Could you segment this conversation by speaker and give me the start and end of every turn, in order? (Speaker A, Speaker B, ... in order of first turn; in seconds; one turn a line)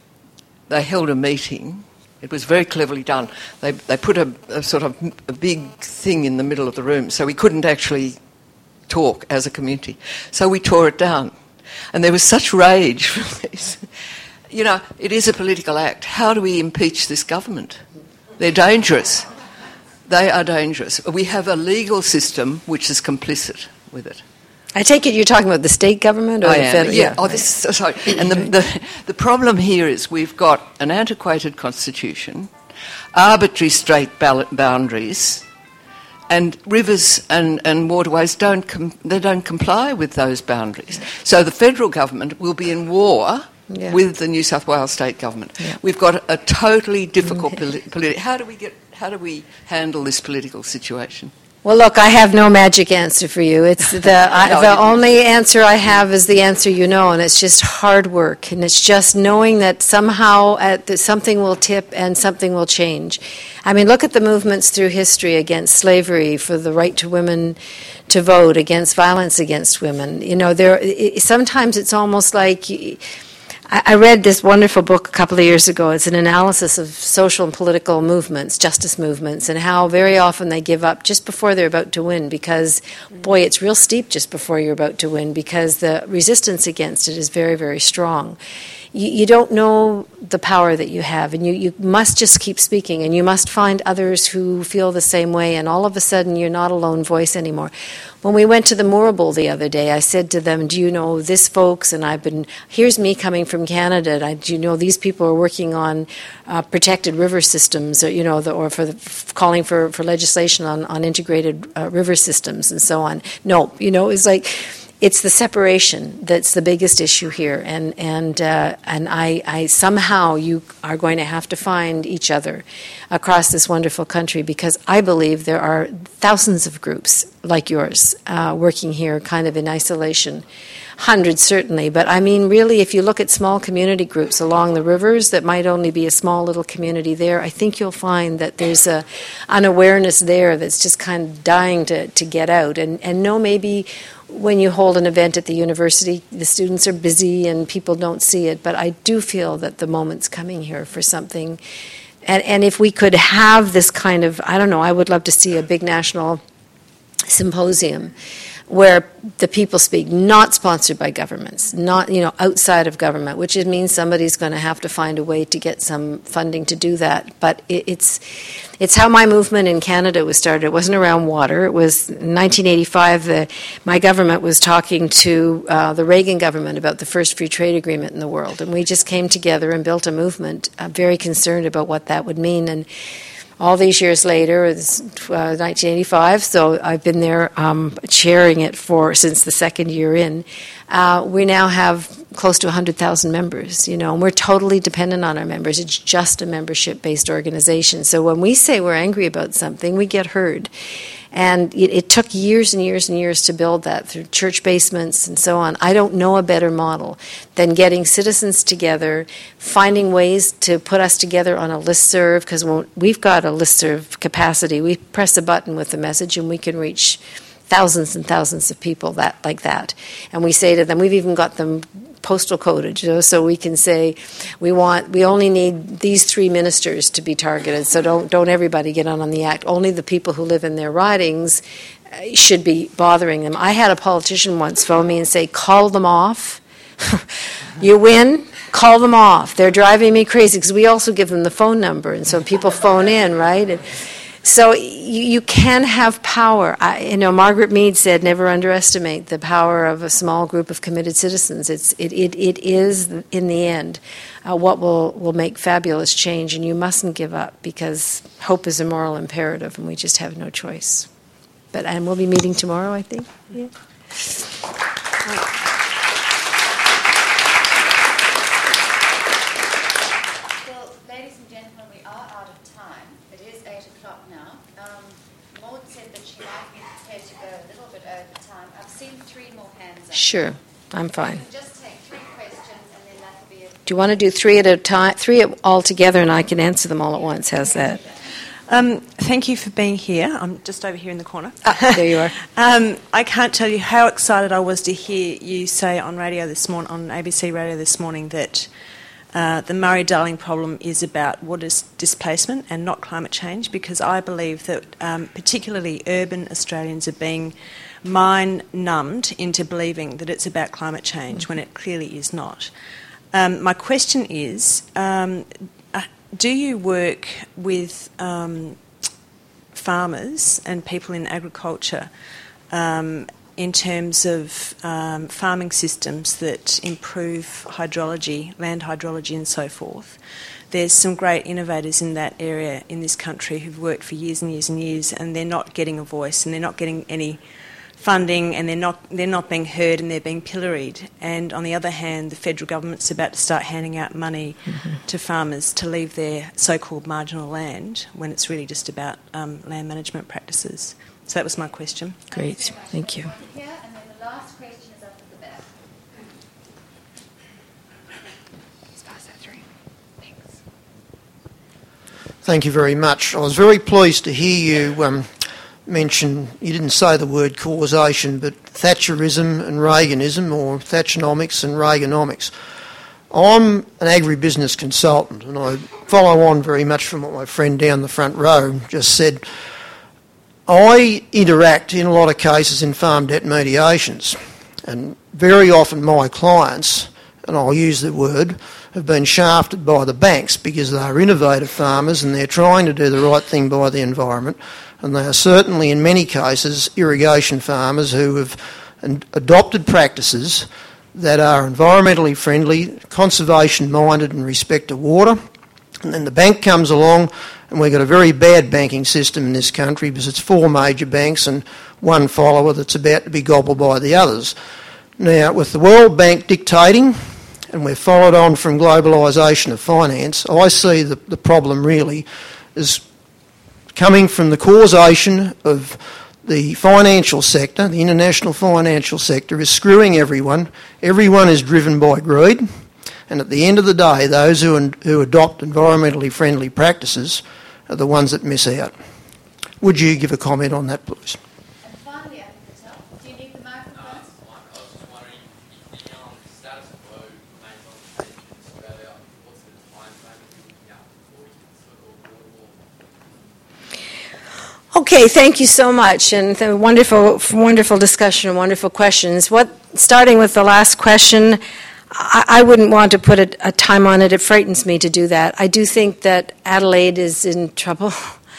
Speaker A: 0.7-8.2
Speaker A: 8.9-11.3
Speaker A: 11.9-13.8
Speaker A: 14.5-17.8
Speaker A: 18.4-19.3
Speaker A: 20.1-24.2
Speaker B: 24.7-27.4
Speaker A: 26.4-32.5
Speaker A: 33.1-35.4
Speaker A: 36.3-51.3
Speaker B: 43.7-44.0
Speaker B: 51.6-73.0
Speaker A: 54.4-55.0
Speaker B: 73.7-88.4
Speaker B: 88.9-130.4
Speaker B: 131.0-151.6
Speaker B: 152.2-156.4
Speaker B: 157.2-158.1
Speaker B: 158.7-182.9
Speaker B: 183.6-200.7
Speaker B: 201.3-261.1
Speaker B: 261.7-263.7
Speaker C: 270.6-280.4
Speaker B: 280.1-281.4
Speaker C: 281.2-283.8
Speaker B: 283.9-288.0
Speaker D: 288.7-298.7
Speaker B: 291.9-292.4
Speaker D: 299.3-312.7
Speaker D: 313.3-318.8
Speaker D: 319.7-322.1
Speaker D: 322.7-330.2
Speaker D: 330.7-337.4
Speaker D: 338.0-352.2
Speaker C: 352.3-355.7
Speaker B: 352.3-353.3
Speaker E: 362.4-365.3
Speaker E: 365.9-372.5
Speaker E: 373.3-379.4
Speaker E: 380.7-405.4
Speaker E: 406.0-414.6
Speaker E: 415.2-423.0
Speaker E: 423.9-439.0
Speaker E: 439.8-441.4
Speaker C: 441.8-444.3
Speaker B: 454.9-468.4